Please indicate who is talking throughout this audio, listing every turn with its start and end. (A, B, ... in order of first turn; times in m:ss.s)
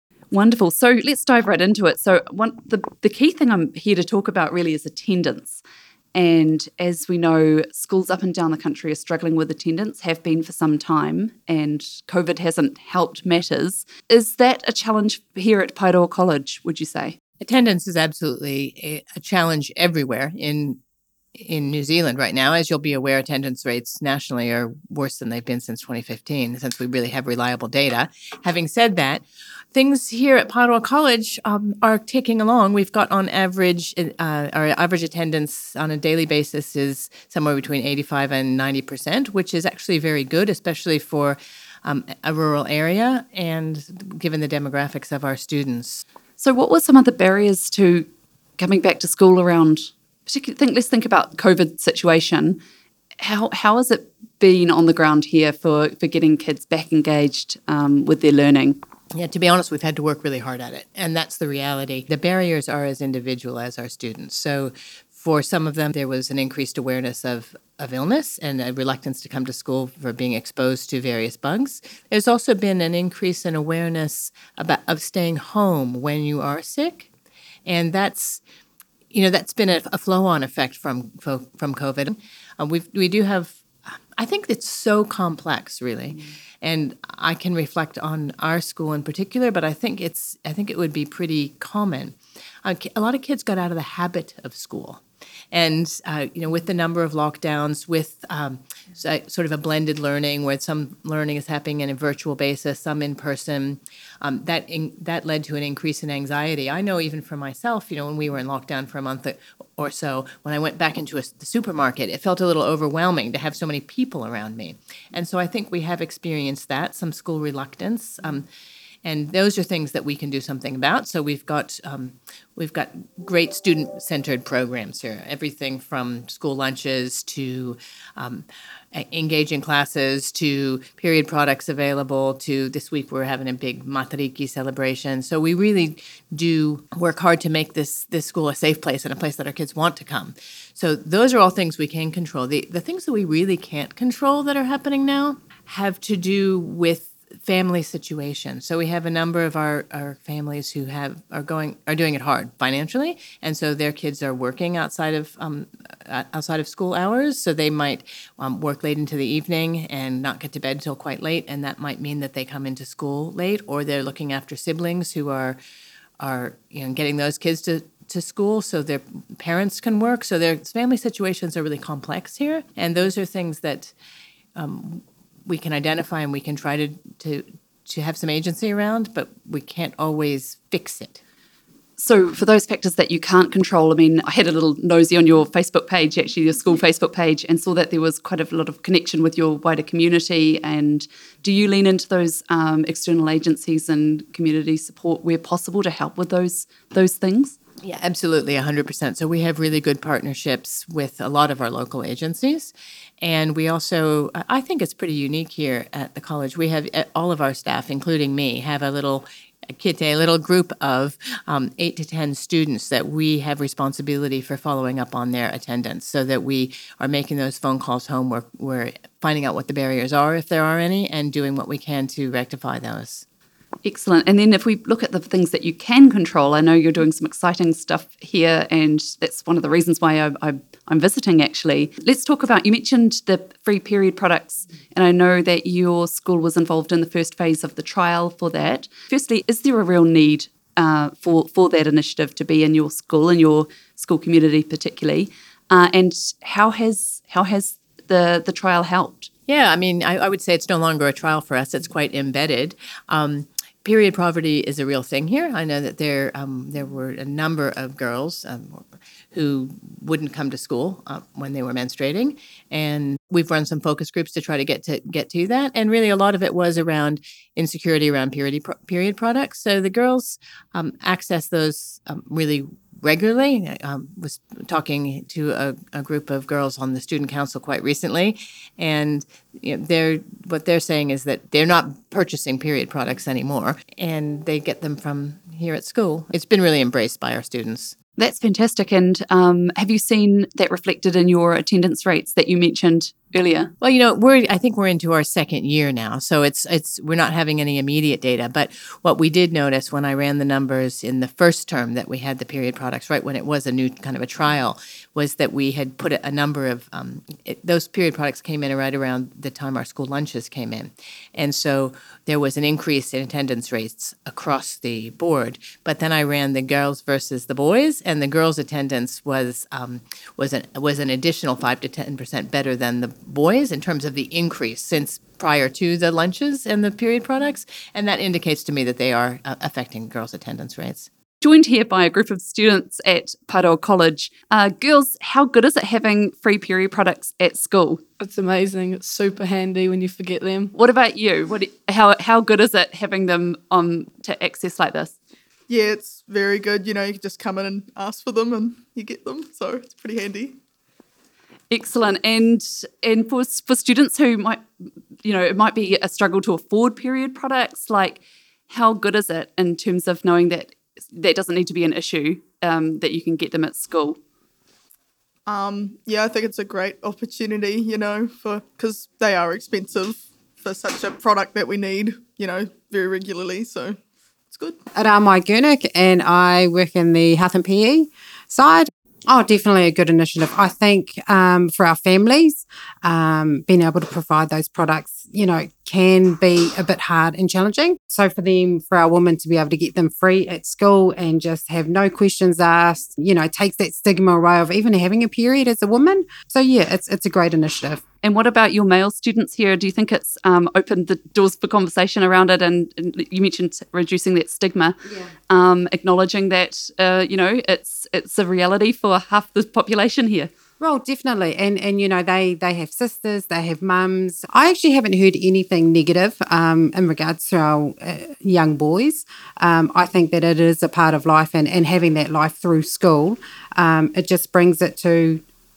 0:00.3-0:05.6 A
0:06.1-0:17.2 A
0:17.4-0:20.8 B
0:21.4-0:46.0 B
0:46.4-0:48.1 A
0:48.6-0:52.6 A
0:53.2-0:58.8 A
0:59.1-1:17.1 B
1:17.6-1:18.4 B
1:19.1-1:23.6 B
1:24.2-1:58.5 B
1:59.0-2:45.6 B
2:46.2-2:53.9 B
2:54.6-3:01.2 B
3:02.0-3:17.6 A
3:17.8-3:43.2 B
3:43.8-4:09.3 A
4:09.5-4:48.0 B
4:48.2-4:53.7 A
4:53.8-5:31.1 B
5:31.4-5:38.0 A
5:38.2-5:40.7 C
5:40.7-5:45.1 A
5:45.7-5:50.6 D
5:51.7-5:54.6 A
5:55.2-6:04.2 A
6:05.4-6:14.0 D
6:14.5-6:14.8 D
6:14.9-6:38.0 E
6:38.2-6:45.0 A
6:45.0-6:45.3 E
6:45.5-6:50.5 A
6:50.8-7:05.4 E